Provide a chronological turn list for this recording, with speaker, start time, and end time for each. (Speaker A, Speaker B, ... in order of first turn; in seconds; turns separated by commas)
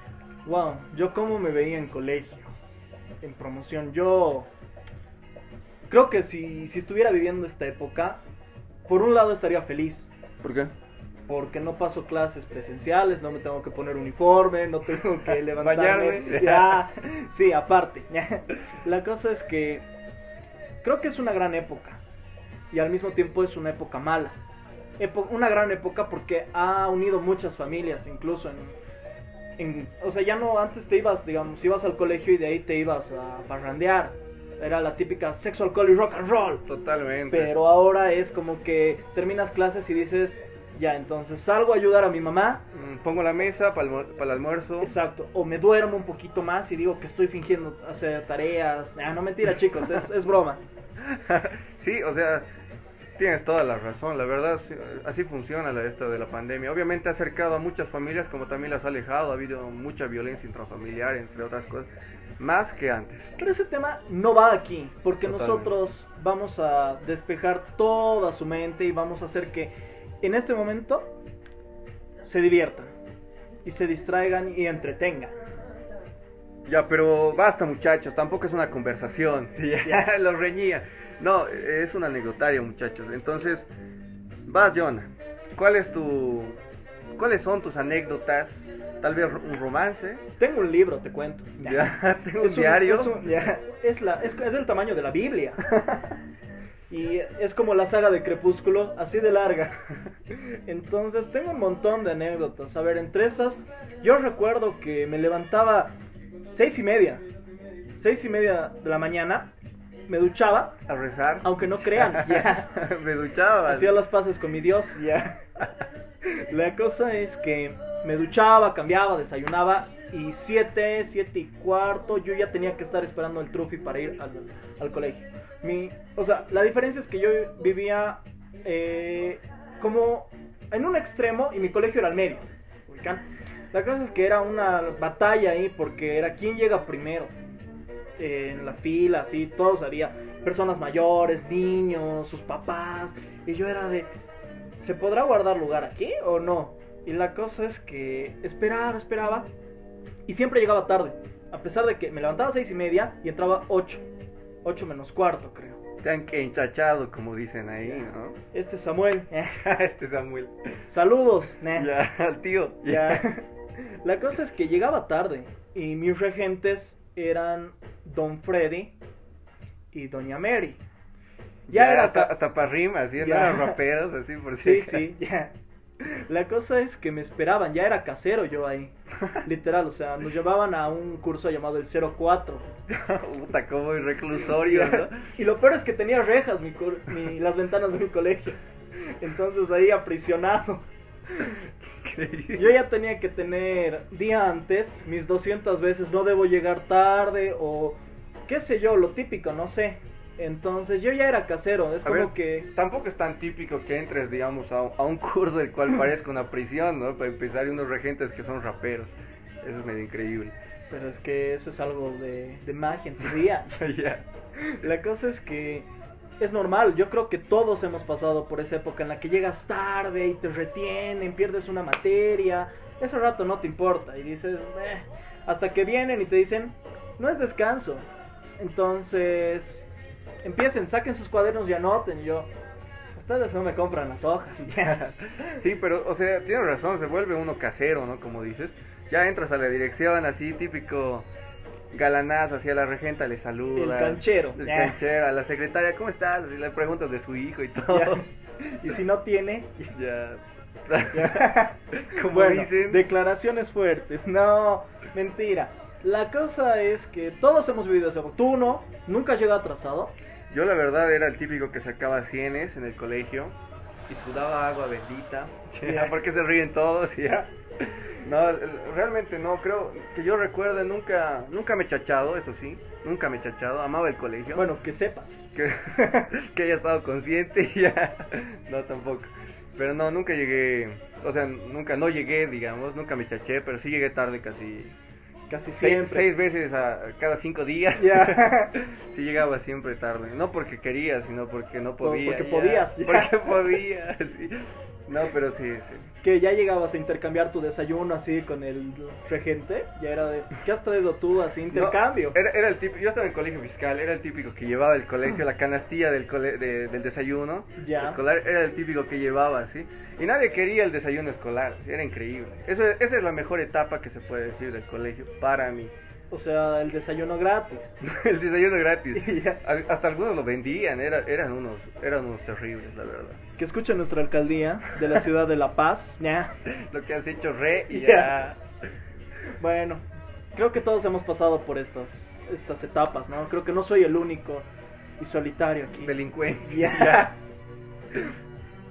Speaker A: 0.4-2.5, Speaker A: 3.2-4.5, Speaker A: 5.9-8.2, Speaker A: 8.9-10.1, Speaker B: 10.4-10.7, Speaker A: 11.3-19.8, Speaker B: 15.6-16.8, Speaker A: 20.8-22.0, Speaker A: 22.7-24.4, Speaker A: 25.0-28.8, Speaker A: 29.6-36.6, Speaker B: 36.6-37.5, Speaker A: 37.3-42.6, Speaker B: 42.7-44.9, Speaker A: 44.8-50.6, Speaker B: 51.0-52.5, Speaker B: 53.2-63.3, Speaker A: 63.4-71.1, Speaker B: 65.2-65.7, Speaker A: 72.2-72.9, Speaker A: 73.6-75.3, Speaker B: 76.7-83.7, Speaker B: 84.5-86.6, Speaker B: 87.1-90.2, Speaker A: 90.4-95.7, Speaker B: 91.6-93.2, Speaker A: 96.9-106.0, Speaker A: 106.5-107.2, Speaker A: 108.0-109.5, Speaker A: 110.1-110.8, Speaker B: 110.9-113.9, Speaker A: 111.4-112.7, Speaker A: 113.6-115.4, Speaker A: 116.3-137.3, Speaker A: 138.2-144.1, Speaker A: 144.8-149.5, Speaker A: 150.2-154.1, Speaker A: 154.6-155.8, Speaker B: 156.0-158.4, Speaker A: 158.5-159.6, Speaker B: 159.5-160.7, Speaker A: 160.9-161.9, Speaker B: 161.7-163.2, Speaker A: 162.8-168.9, Speaker A: 169.9-170.8, Speaker B: 171.7-175.1, Speaker A: 171.7-172.4, Speaker A: 173.2-173.8, Speaker A: 174.6-182.7, Speaker B: 182.9-185.2, Speaker A: 184.6-191.5, Speaker B: 192.0-192.6, Speaker A: 192.5-202.7, Speaker B: 202.0-210.5, Speaker A: 210.9-213.8, Speaker B: 213.7-214.2, Speaker A: 214.6-215.9, Speaker A: 216.4-228.1, Speaker A: 228.6-229.8, Speaker A: 230.4-232.5, Speaker A: 233.1-235.6, Speaker B: 234.7-241.3, Speaker B: 241.9-248.2, Speaker A: 243.7-245.0, Speaker A: 247.9-249.9, Speaker B: 249.9-253.0, Speaker A: 251.1-260.1, Speaker B: 260.5-263.6, Speaker B: 264.1-274.7, Speaker A: 265.8-266.1, Speaker A: 274.5-275.4, Speaker B: 275.5-284.9, Speaker A: 285.5-286.3, Speaker B: 285.8-296.1, Speaker A: 288.0-288.8, Speaker A: 292.0-293.8, Speaker A: 296.2-302.4, Speaker B: 301.7-315.9, Speaker A: 307.8-308.2, Speaker A: 316.3-318.0, Speaker B: 318.0-323.4, Speaker A: 319.1-319.6, Speaker A: 323.6-326.6, Speaker B: 326.6-328.6, Speaker A: 327.9-328.3, Speaker A: 329.6-334.7, Speaker A: 335.2-337.3, Speaker B: 336.0-337.3